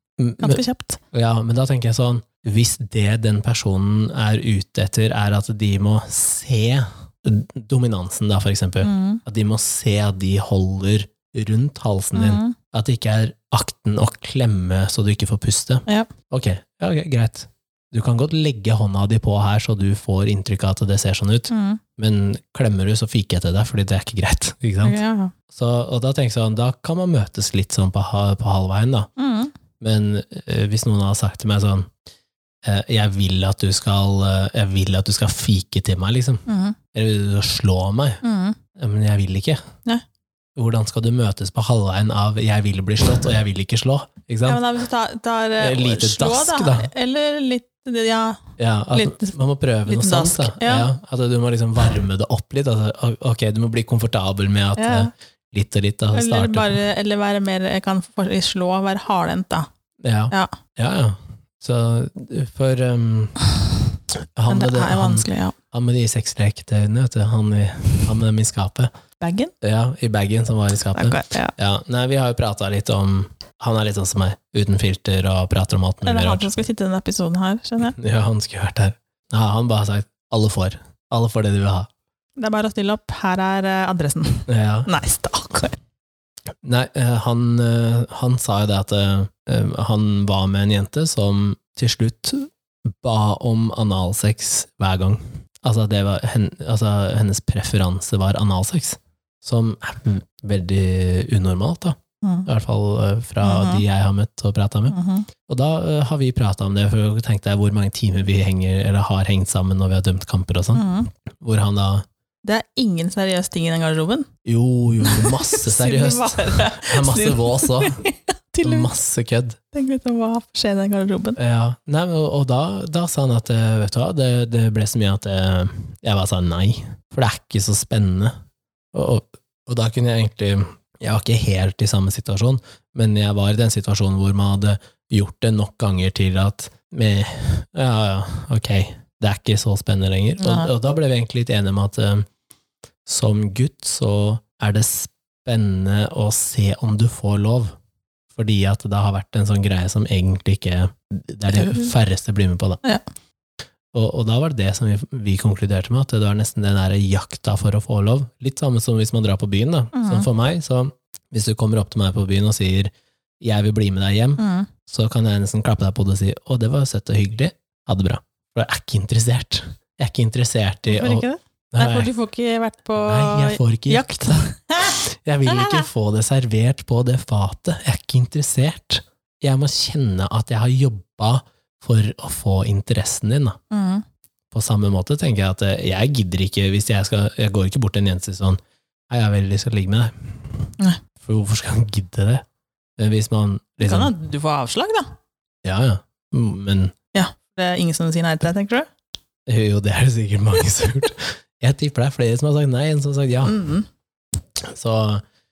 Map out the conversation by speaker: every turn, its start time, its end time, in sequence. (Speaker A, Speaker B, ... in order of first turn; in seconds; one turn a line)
Speaker A: 0.2-25.0
Speaker B: 0.4-1.0
Speaker B: 8.8-9.2
Speaker B: 12.1-12.6
Speaker B: 21.5-21.8
Speaker B: 24.8-25.3
Speaker A: 25.5-29.1
Speaker B: 29.2-29.5
Speaker A: 29.8-31.9
Speaker A: 32.6-38.2
Speaker B: 36.5-36.8
Speaker B: 38.2-38.6
Speaker A: 38.8-39.6
Speaker A: 40.5-44.6
Speaker B: 44.4-48.4
Speaker A: 45.6-46.9
Speaker A: 48.6-56.8
Speaker B: 48.9-50.9
Speaker B: 54.8-55.1
Speaker B: 56.1-59.7
Speaker A: 60.0-63.4
Speaker A: 64.3-68.9
Speaker B: 64.5-65.5
Speaker B: 69.2-69.5
Speaker A: 69.6-76.6
Speaker B: 70.9-71.5
Speaker B: 76.0-78.0
Speaker A: 77.9-81.9
Speaker B: 82.4-85.8
Speaker A: 84.5-84.9
Speaker A: 86.6-112.0
Speaker B: 102.2-102.5
Speaker B: 103.4-103.8
Speaker B: 104.9-105.3
Speaker B: 110.7-111.1
Speaker B: 112.4-114.3
Speaker A: 114.4-118.0
Speaker B: 115.0-118.9
Speaker A: 118.6-119.6
Speaker B: 119.7-121.4
Speaker A: 121.4-128.3
Speaker A: 128.9-142.3
Speaker B: 140.4-140.7
Speaker A: 143.1-147.7
Speaker A: 148.3-152.8
Speaker B: 151.5-151.9
Speaker A: 153.9-172.1
Speaker B: 159.9-160.3
Speaker B: 164.4-164.7
Speaker B: 170.9-175.8
Speaker A: 173.0-183.6
Speaker B: 183.7-184.0
Speaker A: 184.5-188.6
Speaker A: 189.1-190.7
Speaker A: 191.2-192.4
Speaker A: 193.0-194.1
Speaker B: 193.8-195.1
Speaker A: 195.6-196.9
Speaker B: 197.1-198.9
Speaker A: 199.5-203.6
Speaker B: 203.4-203.9
Speaker A: 204.6-205.2